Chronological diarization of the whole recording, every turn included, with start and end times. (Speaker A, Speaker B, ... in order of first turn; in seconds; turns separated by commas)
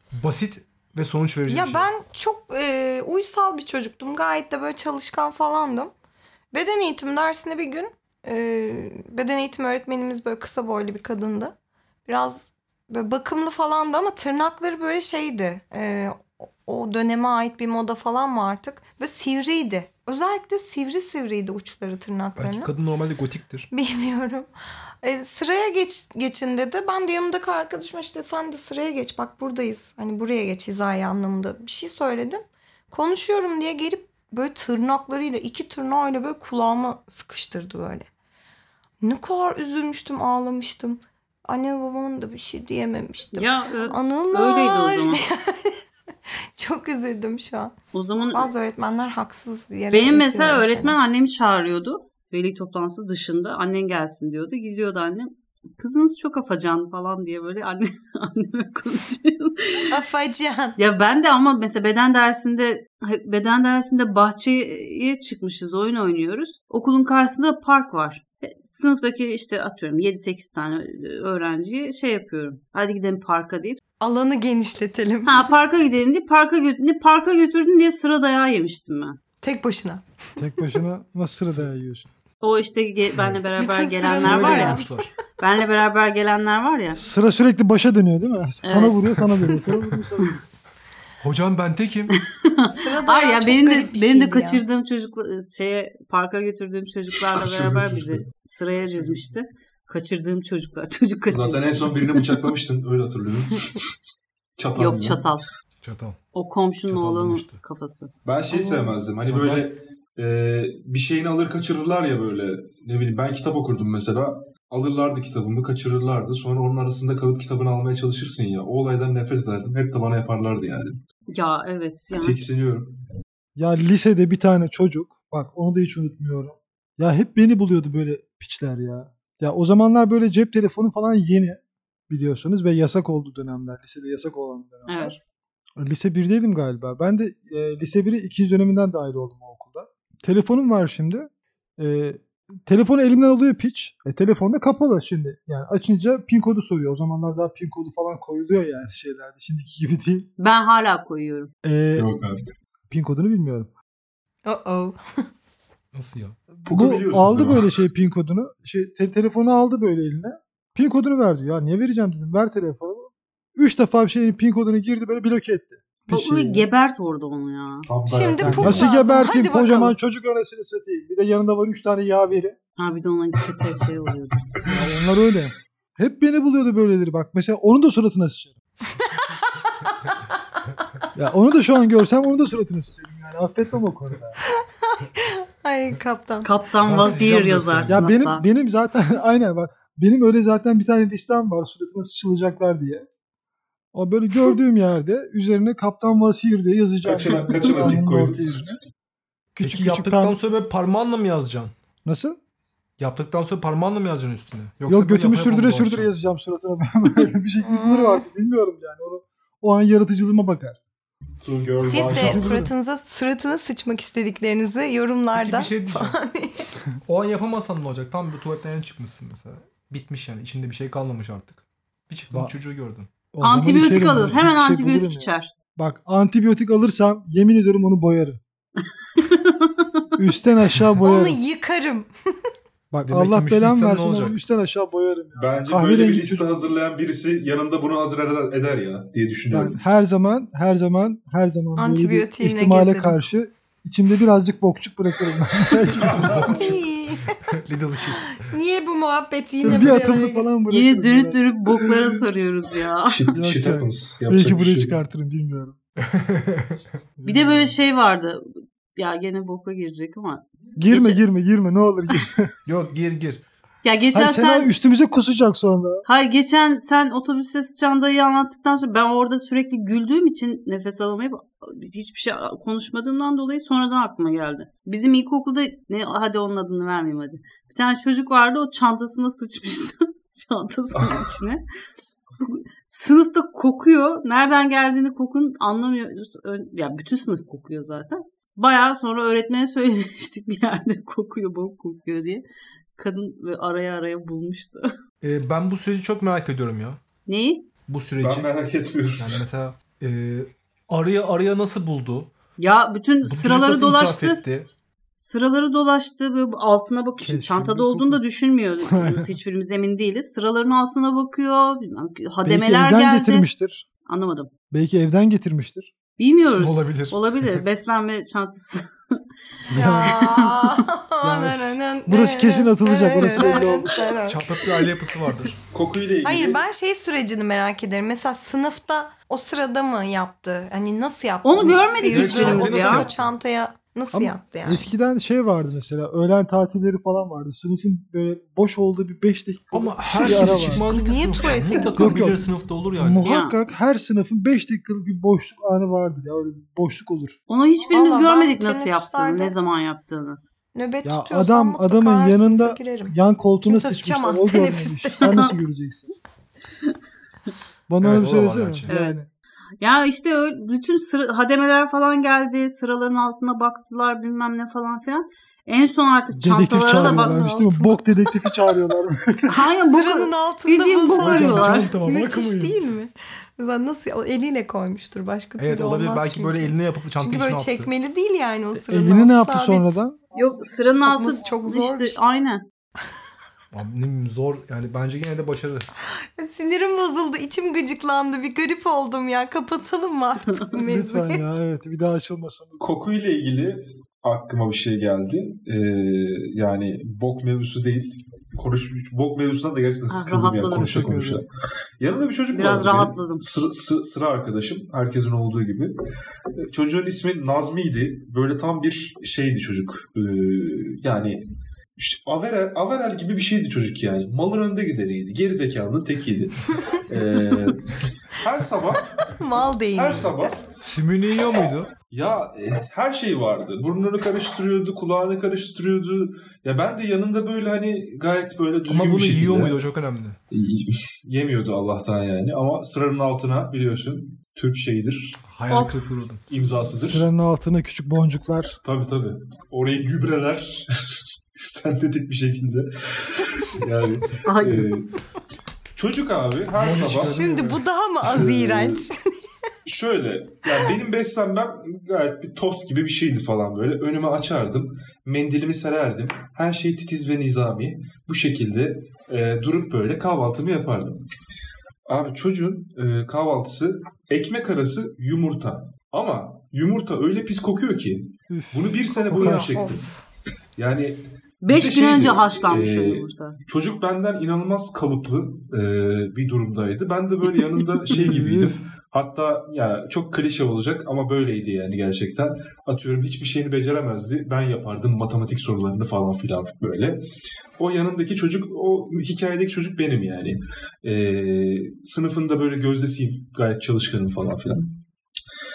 Speaker A: 0.1-1.9, Speaker B: 1.5-5.9, Speaker B: 6.5-22.7, Speaker A: 22.4-23.7, Speaker B: 23.7-24.5, Speaker B: 25.0-38.1, Speaker B: 39.0-45.8, Speaker C: 43.3-45.2, Speaker B: 46.6-47.7, Speaker C: 47.9-48.5, Speaker B: 48.3-51.0, Speaker C: 49.9-59.9, Speaker B: 59.9-60.8, Speaker C: 60.8-73.8, Speaker B: 74.0-75.5, Speaker C: 75.2-79.2, Speaker B: 79.4-80.0, Speaker D: 80.4-82.1, Speaker C: 82.4-84.8, Speaker A: 83.2-83.4, Speaker B: 83.5-85.1, Speaker A: 84.0-85.1, Speaker C: 85.4-87.0, Speaker D: 87.0-90.4, Speaker C: 88.6-89.0, Speaker A: 91.2-92.2, Speaker C: 92.1-102.3, Speaker B: 92.7-94.6, Speaker E: 97.3-98.2, Speaker E: 101.3-103.9, Speaker E: 104.6-105.3, Speaker C: 104.8-105.5, Speaker A: 105.8-106.2, Speaker C: 106.3-108.1, Speaker A: 106.9-107.6, Speaker E: 108.2-121.0, Speaker B: 108.5-108.9, Speaker A: 109.3-109.7, Speaker C: 121.3-122.4, Speaker E: 122.1-122.9, Speaker D: 123.5-135.2, Speaker C: 134.9-135.2, Speaker D: 135.8-150.3, Speaker C: 150.4-151.5, Speaker D: 151.6-152.1, Speaker E: 151.9-152.5, Speaker D: 152.9-153.7, Speaker B: 154.4-155.0, Speaker A: 155.9-156.4, Speaker D: 156.6-166.7, Speaker E: 156.7-157.7, Speaker C: 166.1-167.9, Speaker E: 167.9-168.9, Speaker B: 168.1-169.9, Speaker D: 168.4-172.6, Speaker C: 172.8-174.4, Speaker D: 174.7-178.6, Speaker B: 179.0-180.1, Speaker D: 181.1-184.4, Speaker B: 184.8-186.5, Speaker C: 186.4-188.4, Speaker A: 186.8-188.1, Speaker D: 187.9-193.1, Speaker D: 193.9-198.8, Speaker E: 197.0-198.7, Speaker D: 199.6-200.4, Speaker A: 199.6-201.7, Speaker D: 202.0-202.4, Speaker A: 203.0-206.1, Speaker D: 204.9-210.8, Speaker B: 207.6-208.2, Speaker E: 211.4-212.5, Speaker B: 211.8-216.7, Speaker D: 211.9-212.7, Speaker A: 215.3-216.2, Speaker A: 217.1-223.1, Speaker D: 223.3-228.4, Speaker C: 223.4-225.5, Speaker A: 224.0-224.3, Speaker C: 229.2-230.1, Speaker D: 230.2-231.4, Speaker B: 231.0-232.1, Speaker D: 232.9-236.5, Speaker A: 233.0-234.3, Speaker E: 235.3-239.8, Speaker D: 239.5-246.7, Speaker B: 241.8-243.2, Speaker E: 245.9-246.8, Speaker A: 246.2-246.7, Speaker B: 246.5-247.4, Speaker A: 247.5-248.3, Speaker B: 248.4-250.5, Speaker D: 249.6-252.2, Speaker C: 250.7-253.2, Speaker E: 253.1-255.0, Speaker D: 253.3-255.8, Speaker A: 256.0-256.8, Speaker D: 257.2-257.7, Speaker C: 257.2-261.2, Speaker D: 260.8-262.5, Speaker A: 262.6-263.4, Speaker C: 263.8-264.7, Speaker D: 264.1-266.0, Speaker C: 266.1-281.6, Speaker E: 281.0-281.2, Speaker C: 282.4-292.4, Speaker C: 292.9-294.9, Speaker A: 295.2-297.0, Speaker C: 297.2-297.7, Speaker A: 297.9-298.5, Speaker E: 298.2-299.4, Speaker A: 299.2-302.3, Speaker C: 302.6-304.4, Speaker A: 303.2-304.7, Speaker C: 305.2-313.5, Speaker D: 307.2-308.2, Speaker D: 308.9-309.3, Speaker D: 312.4-313.9, Speaker C: 314.1-314.5, Speaker D: 314.7-315.9, Speaker C: 316.2-319.2, Speaker A: 316.5-317.6, Speaker D: 319.7-320.2, Speaker B: 319.7-324.9, Speaker C: 319.9-320.7, Speaker D: 321.2-324.0, Speaker A: 324.2-325.6, Speaker E: 325.7-326.6, Speaker B: 326.2-334.9, Speaker C: 331.4-333.1, Speaker E: 332.1-333.1, Speaker A: 332.1-333.2, Speaker D: 334.1-340.9, Speaker A: 339.7-343.3, Speaker B: 340.8-342.3, Speaker D: 341.9-347.4, Speaker C: 343.2-343.6, Speaker C: 347.5-350.4, Speaker B: 347.9-349.5, Speaker B: 350.7-355.5, Speaker D: 351.0-356.1, Speaker C: 355.2-355.5, Speaker D: 357.9-359.3, Speaker A: 358.0-358.9, Speaker C: 358.9-359.2, Speaker C: 359.8-367.8, Speaker D: 366.3-369.7, Speaker B: 366.9-367.9, Speaker C: 369.5-371.9, Speaker B: 369.8-379.9, Speaker A: 371.2-372.8, Speaker D: 371.3-371.7, Speaker A: 375.6-377.9, Speaker D: 378.7-380.2, Speaker C: 380.3-382.6, Speaker B: 381.0-382.2, Speaker A: 383.7-385.9, Speaker B: 386.4-391.4, Speaker D: 390.7-392.8, Speaker E: 392.8-401.5, Speaker C: 400.1-401.0, Speaker D: 400.7-401.4, Speaker E: 402.0-405.9, Speaker C: 402.5-403.4, Speaker E: 406.6-411.4, Speaker E: 412.0-419.3, Speaker B: 419.3-420.5, Speaker E: 419.9-420.6, Speaker A: 420.8-421.9, Speaker E: 422.1-429.8, Speaker A: 428.9-430.4, Speaker E: 430.5-435.4, Speaker A: 435.5-436.4, Speaker C: 435.7-436.2, Speaker E: 436.5-437.2, Speaker D: 437.0-438.8, Speaker E: 438.8-445.1, Speaker C: 444.4-444.9, Speaker E: 445.9-447.4, Speaker A: 446.8-447.8, Speaker B: 447.0-449.3, Speaker E: 448.2-449.1, Speaker E: 449.9-461.2, Speaker E: 462.1-470.1, Speaker D: 468.5-469.7, Speaker B: 469.4-470.1, Speaker E: 470.8-487.2, Speaker C: 471.6-473.6, Speaker D: 478.1-478.8, Speaker E: 487.8-494.9